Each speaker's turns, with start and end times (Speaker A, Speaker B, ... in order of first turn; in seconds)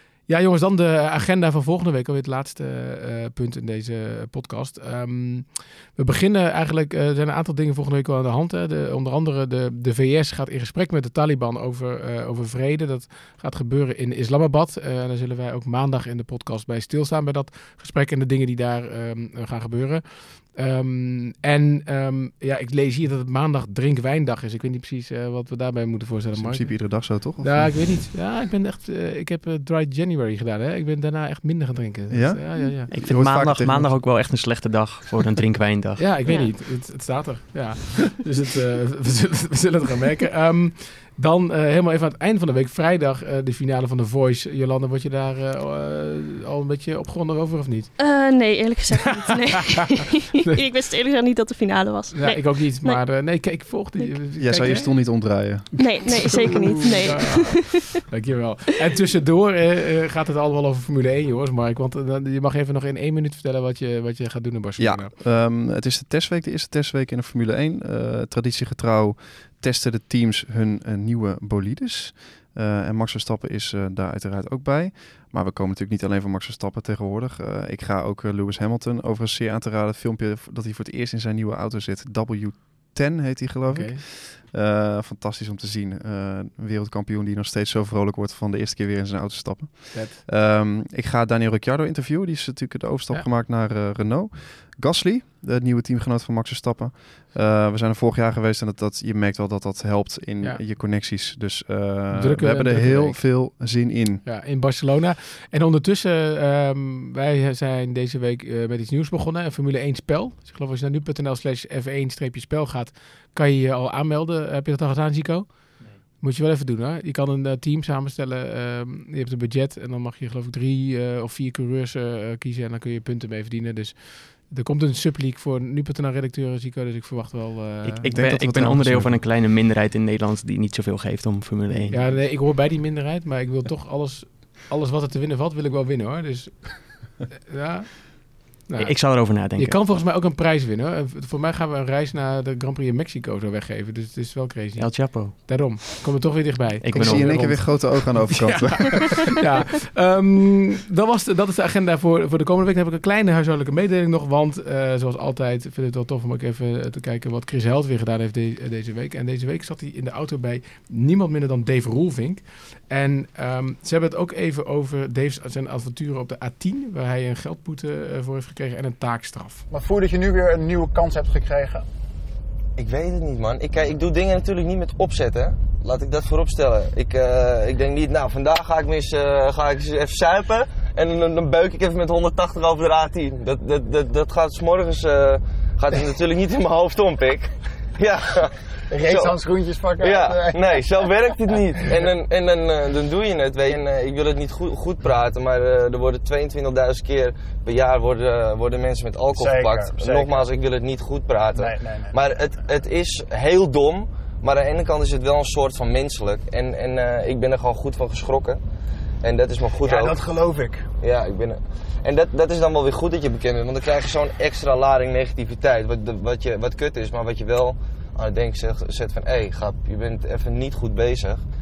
Speaker A: 0.3-32.9, 36.0-48.0, 52.1-65.1, 83.7-84.0, 89.9-90.2, 102.1-103.2, 104.2-128.0, 131.9-169.6
Speaker B: 26.3-27.8, 32.1-34.0, 54.4-56.2, 64.8-104.2, 128.1-129.2, 146.9-149.3
Speaker C: 32.9-36.0, 127.8-132.0, 138.8-139.8, 144.8-145.3, 146.8-147.7
Speaker D: 48.0-49.9, 50.4-53.0, 55.8-57.8
Speaker E: 169.7-171.9, 188.9-190.9, 199.3-200.5, 201.5-202.2, 209.8-210.9
Speaker F: 172.8-189.3, 190.0-208.6, 209.2-210.2, 211.0-221.4